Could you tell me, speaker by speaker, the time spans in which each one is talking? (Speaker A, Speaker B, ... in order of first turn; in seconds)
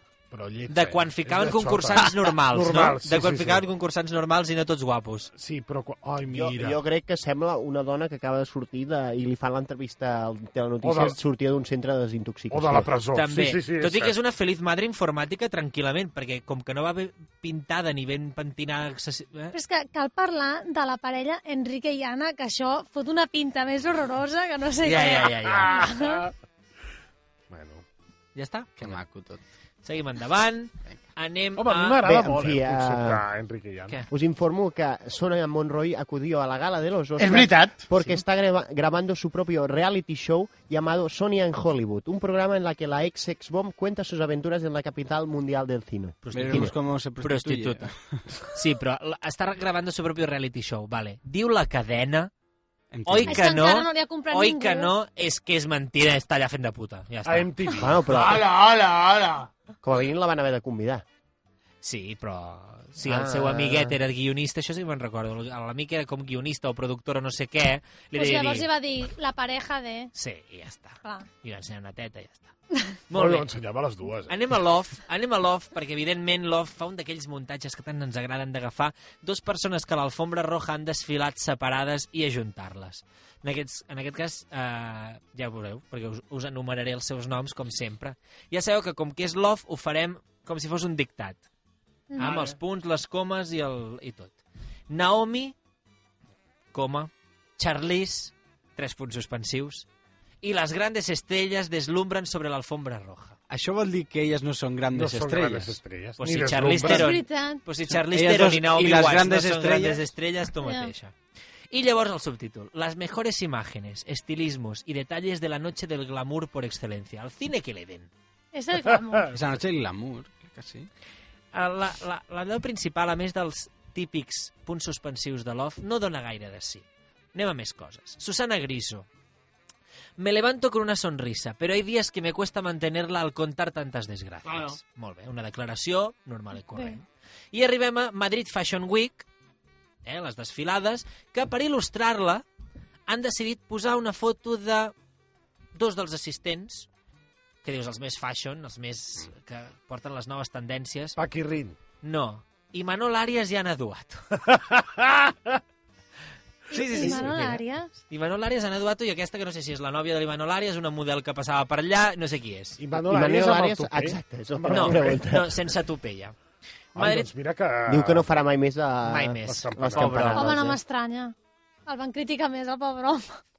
Speaker A: 0.3-3.6, 5.3-6.8, 10.8-11.2, 12.5-14.1, 25.6-26.3, 27.5-27.8, 31.6-34.0, 57.2-58.0, 73.1-74.3, 104.9-107.1, 151.2-151.8, 154.4-155.6, 157.0-157.5, 162.8-165.2, 167.0-168.3, 169.5-170.5
Speaker B: 0.7-5.3, 13.1-19.5, 24.8-25.9, 28.4-29.0, 29.8-32.1, 46.2-47.9, 48.5-52.3, 53.1-57.5, 61.8-68.7, 70.2-72.5, 73.1-73.5, 74.3-91.4, 92.2-94.3, 94.9-95.5, 96.7-99.9, 100.4-103.4, 106.2-111.1, 111.7-118.1, 121.5-129.1, 130.2-139.3, 140.0-142.4, 143.1-144.9, 145.8-146.9, 147.6-151.2, 152.0-154.2, 156.7-157.5, 158.1-162.8, 164.7-166.4, 166.9-167.3, 169.1-170.5
Speaker C: 6.3-12.9, 32.0-33.2, 34.1-46.7, 57.8-58.5, 59.8-61.0, 63.0-64.0, 162.9-165.6, 167.9-170.8
Speaker D: 19.5-26.2, 53.2-54.9, 68.2-70.1, 106.8-107.6, 110.7-110.9, 118.5-119.3, 136.7-137.0, 156.9-157.9, 170.3-171.3, 171.9-173.4
Speaker E: 28.8-29.4, 46.3-48.2, 52.9-53.4, 103.5-105.8, 108.1-110.0, 119.3-120.9
Speaker F: 37.2-37.8, 58.1-59.5, 92.2-92.6, 134.4-134.8